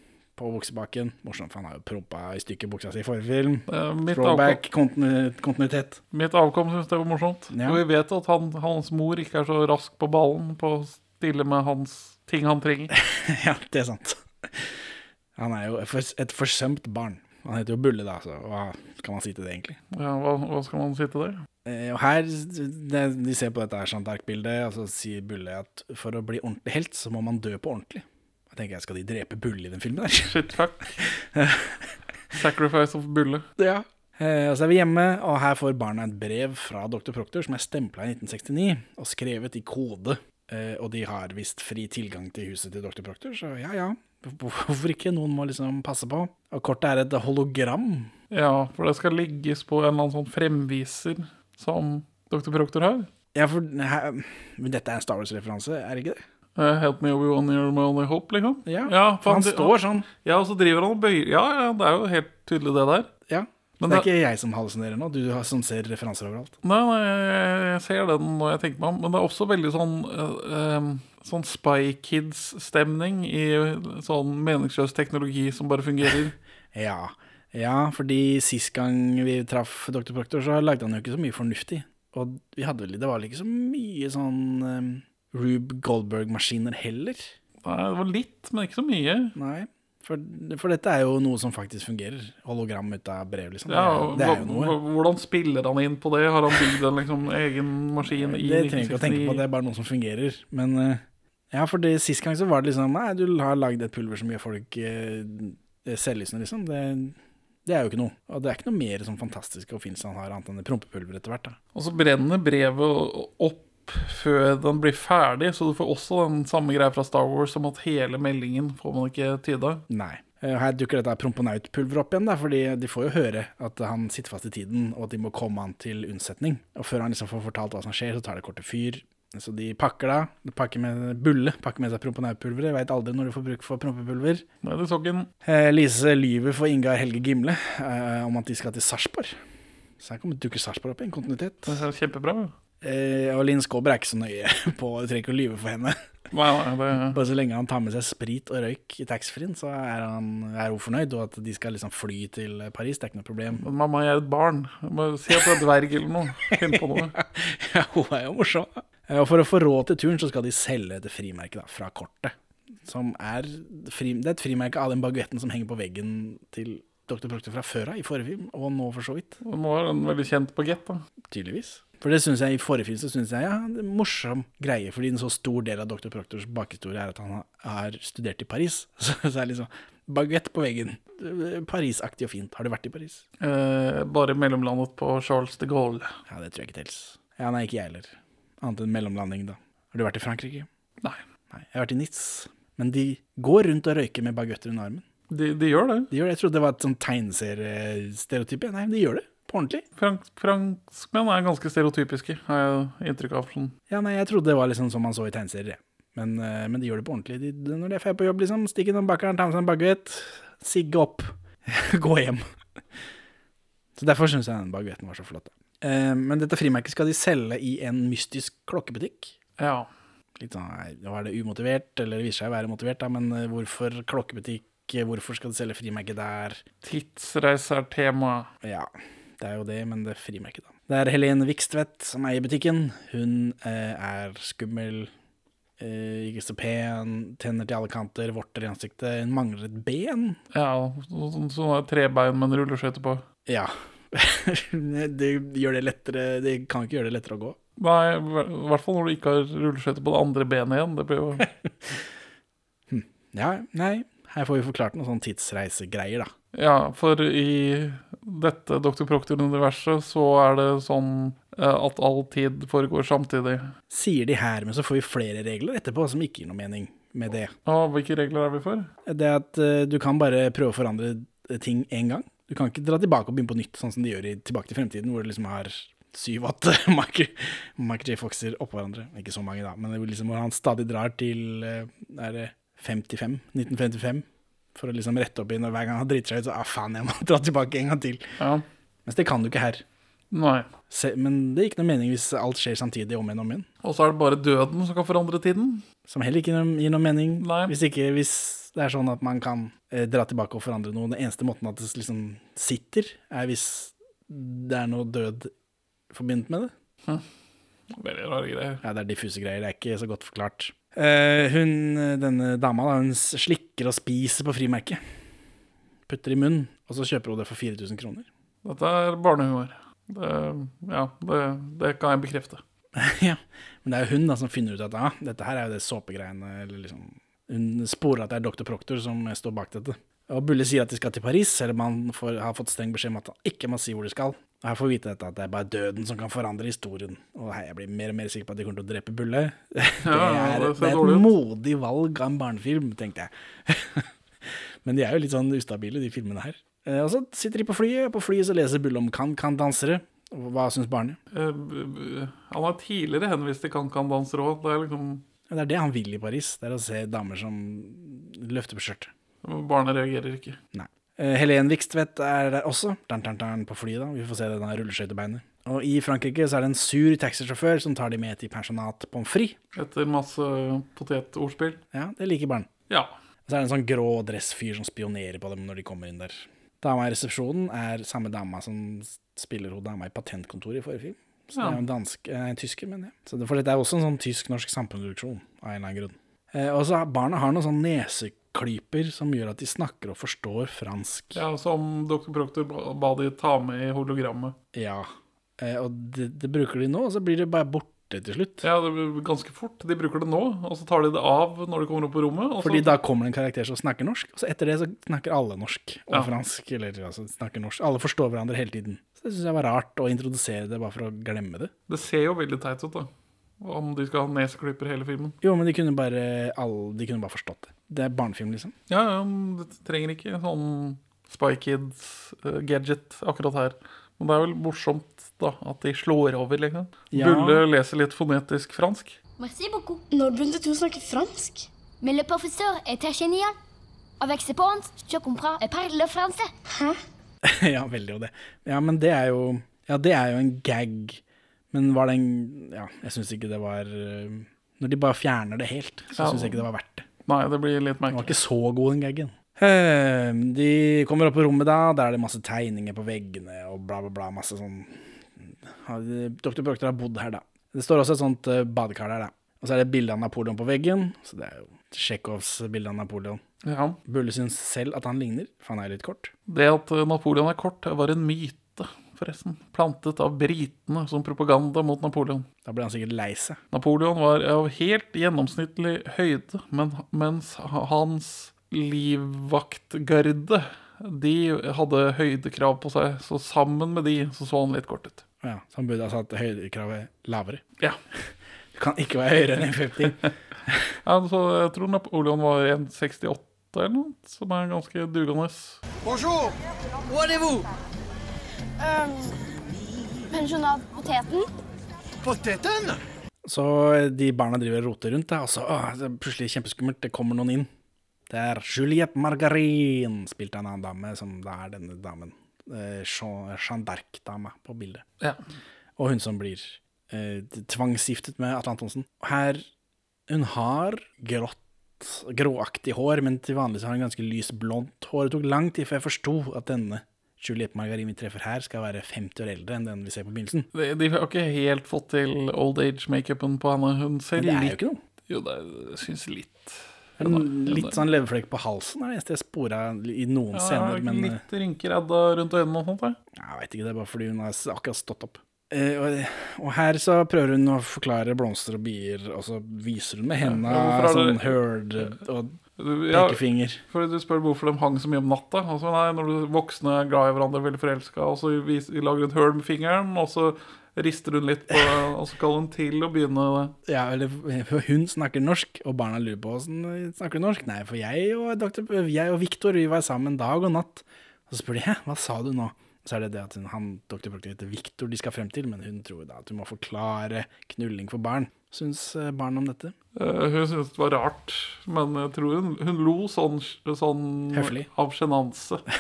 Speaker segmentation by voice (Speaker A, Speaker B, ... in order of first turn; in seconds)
Speaker A: 0.4-6.0, 7.5-7.8, 12.9-14.8, 15.4-19.8, 21.6-30.4, 31.0-31.9, 33.6-48.1, 53.3-56.2, 58.7-60.1, 63.3-66.6, 76.7-87.3, 89.4-94.8, 98.1-111.6, 119.9-134.4, 135.4-139.4, 140.0-141.8, 142.8-145.9, 146.9-153.6, 156.5-162.3, 162.8-169.4, 171.3-183.2, 186.3-190.7, 191.5-195.0, 196.1-199.8, 203.9-212.4, 214.0-219.3, 220.4-226.6, 228.6-235.1, 235.8-240.4, 243.5-247.6, 251.4-252.0, 252.9-256.3, 263.9-267.5, 269.1-288.4, 289.1-289.8, 290.9-293.7, 296.1-305.5, 306.1-306.7, 308.8-315.0, 316.1-318.3, 322.9-351.2, 355.5-359.1, 360.7-369.6, 371.9-372.7, 373.5-391.4, 394.7-398.7, 402.6-411.7, 415.4-418.7, 427.1-427.6, 437.4-441.2, 441.7-447.1, 448.1-463.4, 464.1-466.3, 472.6-473.6, 485.4-491.0, 503.4-507.7, 508.3-515.0, 516.0-519.6, 520.3-530.7, 534.4-535.0, 537.2-541.4, 543.4-552.6, 553.1-553.8, 563.9-579.9, 584.5-584.9
Speaker B: 3.7-4.6, 6.1-12.9, 19.9-21.4, 30.2-31.0, 32.3-33.5, 48.3-53.1, 56.6-63.1, 63.8-64.1, 66.6-76.4, 87.6-89.3, 93.7-99.4, 111.8-119.8, 134.6-135.3, 141.7-142.6, 146.3-147.2, 153.6-157.2, 169.4-171.0, 183.4-186.2, 195.3-196.1, 200.0-203.8, 219.6-219.9, 226.8-228.5, 240.5-243.2, 247.8-251.5, 256.5-263.7, 267.7-268.9, 288.4-288.6, 290.3-290.7, 293.8-295.8, 297.4-297.7, 307.9-308.8, 318.6-322.6, 340.1-341.3, 351.3-355.3, 359.4-360.6, 369.8-371.8, 381.5-381.8, 391.4-394.6, 398.6-403.0, 411.9-415.4, 418.9-429.2, 446.2-446.6, 447.3-448.4, 463.6-464.0, 466.5-472.5, 473.7-485.2, 491.0-495.8, 530.7-538.0, 540.5-543.2, 550.4-552.1, 552.8-563.8, 580.2-585.9
Speaker C: 429.4-430.0, 432.0-433.6, 434.2-436.5
Speaker D: 430.1-431.7, 436.7-437.0, 498.8-499.3, 500.3-501.5
Speaker E: 496.0-496.5, 497.1-497.7, 502.2-503.0